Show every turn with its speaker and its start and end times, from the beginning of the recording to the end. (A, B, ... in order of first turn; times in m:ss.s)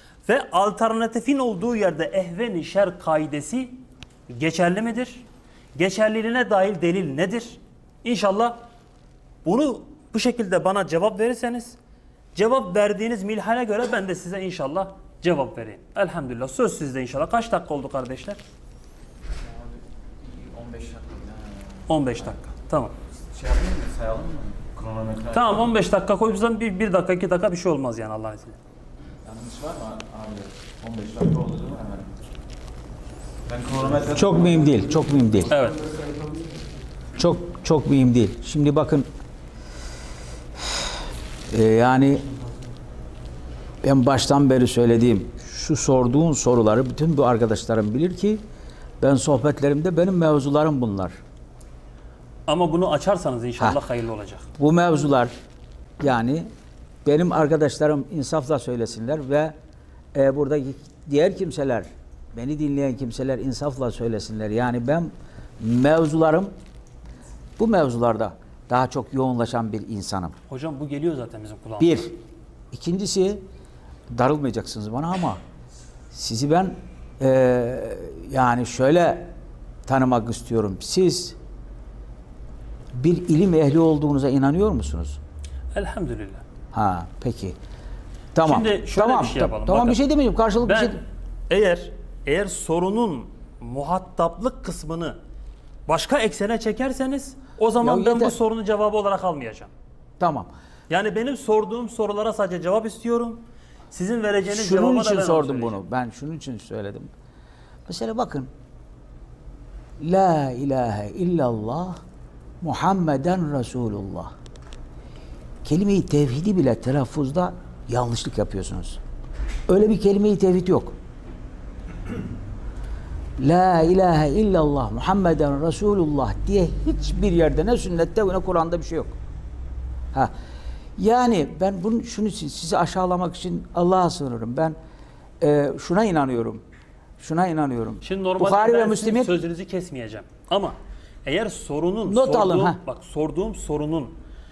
0:00.3-0:03.8 A
0:04.3-0:05.2 A
0:05.8-0:08.6 A
0:09.4-0:11.8 A
0:12.4-0:18.4 A
0:19.4-0:22.4 B
0:21.9-0:22.9 A
0:23.3-0:25.7 B
0:25.3-0:28.6 A
0:29.2-0:32.1 B
0:33.5-0:35.1 B
0:34.1-0:35.5 C
0:35.5-0:35.8 A
0:37.2-0:39.1 C
0:41.5-0:42.2 C
0:43.8-0:48.4 C
0:49.0-0:51.1 C
0:52.5-0:54.5 A
0:54.6-0:55.3 C
0:56.0-0:56.5 C
0:57.0-0:59.6 C
1:00.1-1:06.5 C
1:07.6-1:10.4 C
1:10.5-1:12.0 A
1:11.8-1:12.2 C
1:12.7-1:13.4 C
1:14.1-1:15.4 C
1:16.1-1:19.3 C
1:19.9-1:21.4 C
1:22.9-1:25.2 C
1:25.7-1:26.4 A
1:26.7-1:27.6 C
1:28.3-1:31.0 C
1:28.4-1:30.0 A
1:30.6-1:31.0 A
1:31.5-1:35.2 A
1:35.9-1:39.7 A
1:37.8-1:38.3 C
1:40.2-1:40.5 C
1:40.9-1:45.8 A
1:44.5-1:47.1 C
1:47.9-1:48.5 C
1:50.0-1:52.0 C
1:52.6-1:54.3 C
1:55.6-1:59.0 C
1:59.7-2:00.9 C
2:03.4-2:09.2 C
2:11.0-2:14.8 C
2:15.4-2:16.6 C
2:17.2-2:19.4 C
2:18.0-2:24.2 A
2:22.1-2:22.8 C